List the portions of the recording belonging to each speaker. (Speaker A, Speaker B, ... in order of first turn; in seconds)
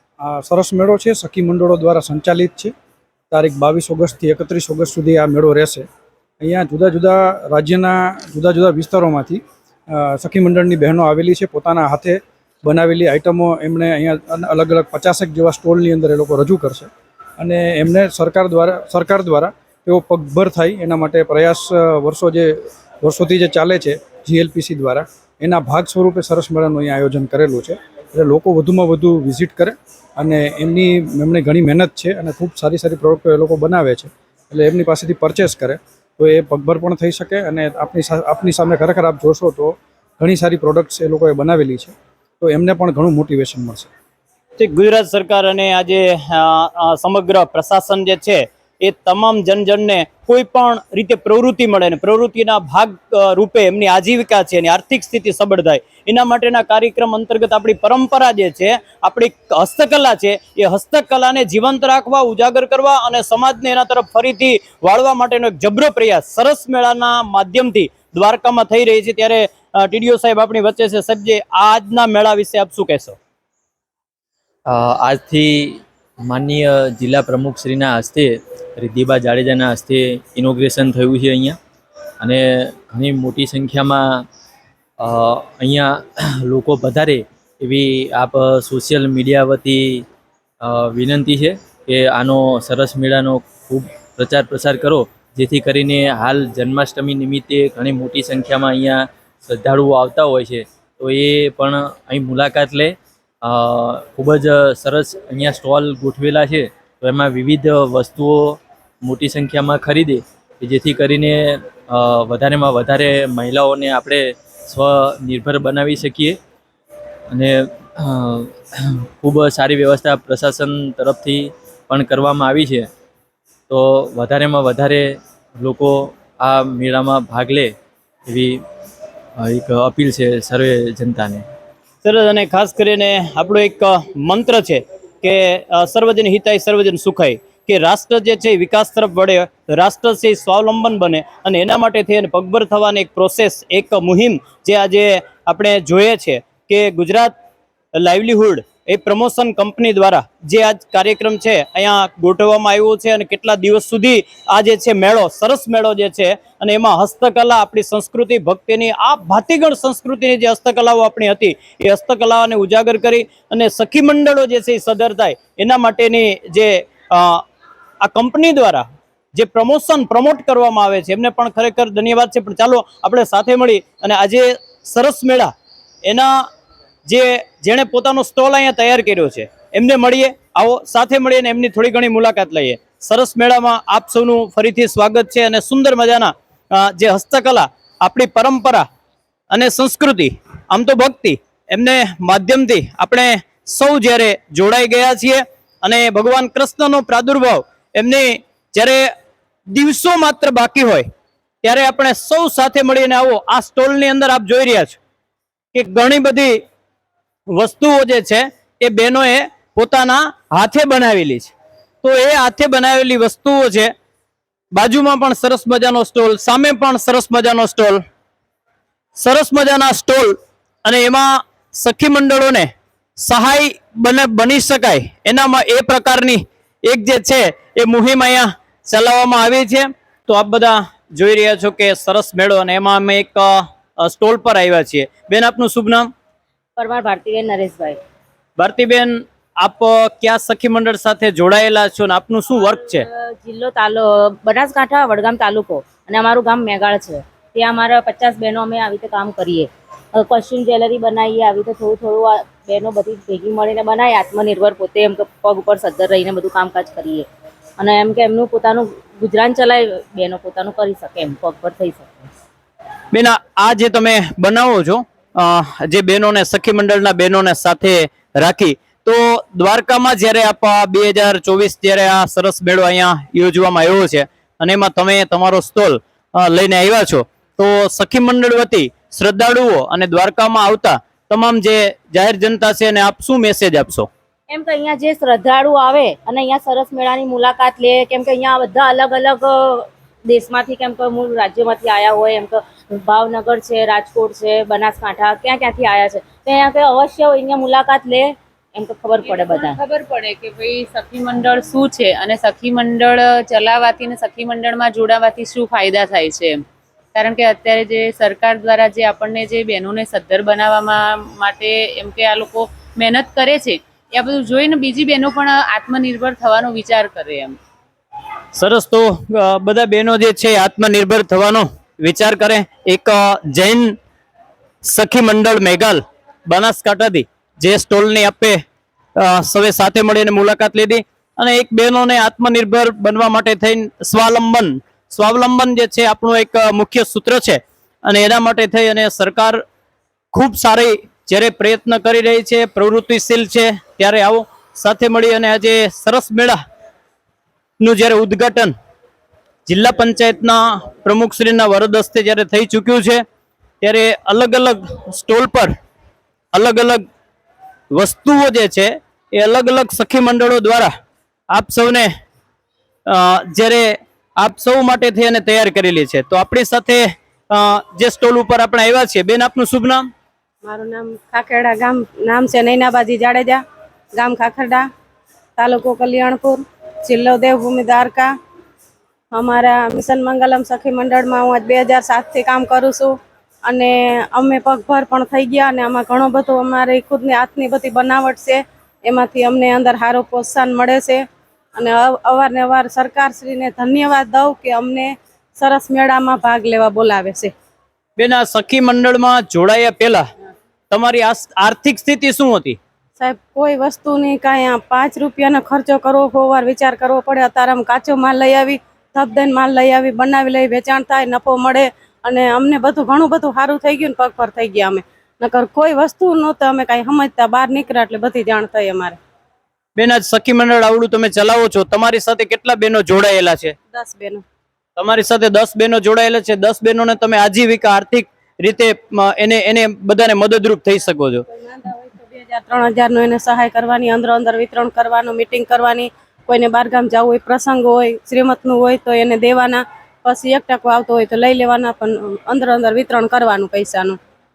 Speaker A: 0.2-2.7, 3.3-5.8, 6.4-43.9
Speaker B: 44.6-73.2, 132.0-147.3, 148.0-167.4, 168.0-175.5, 176.1-176.3, 177.1-188.9, 189.5-199.1, 199.7-201.1, 201.6-205.0, 205.7-206.6, 207.5-213.9, 214.7-218.0, 219.2-222.7, 223.2-236.1, 238.6-243.0, 263.1-284.1, 318.6-323.9, 324.8-328.6, 329.2-339.6, 340.3-346.6, 347.8-348.7, 349.7-353.2, 353.8-355.7, 356.6-357.0, 357.9-360.9, 361.5-362.1, 363.1-370.1, 398.2-400.2, 400.9-402.8, 420.0-423.8, 425.0-431.4
Speaker C: 74.7-81.6, 82.2-84.2, 85.0-90.0, 90.6-116.4, 117.3-122.9, 123.7-127.7, 128.3-128.6, 129.4-131.4
Speaker D: 236.8-238.0, 242.5-257.3, 257.8-262.3, 284.5-299.8
Speaker E: 299.2-306.6, 307.1-317.6
Speaker F: 370.6-373.6, 374.1-374.9, 375.6-378.3, 379.3-383.1, 383.7-391.2, 391.8-397.5, 403.2-419.2, 423.9-424.4, 431.5-444.2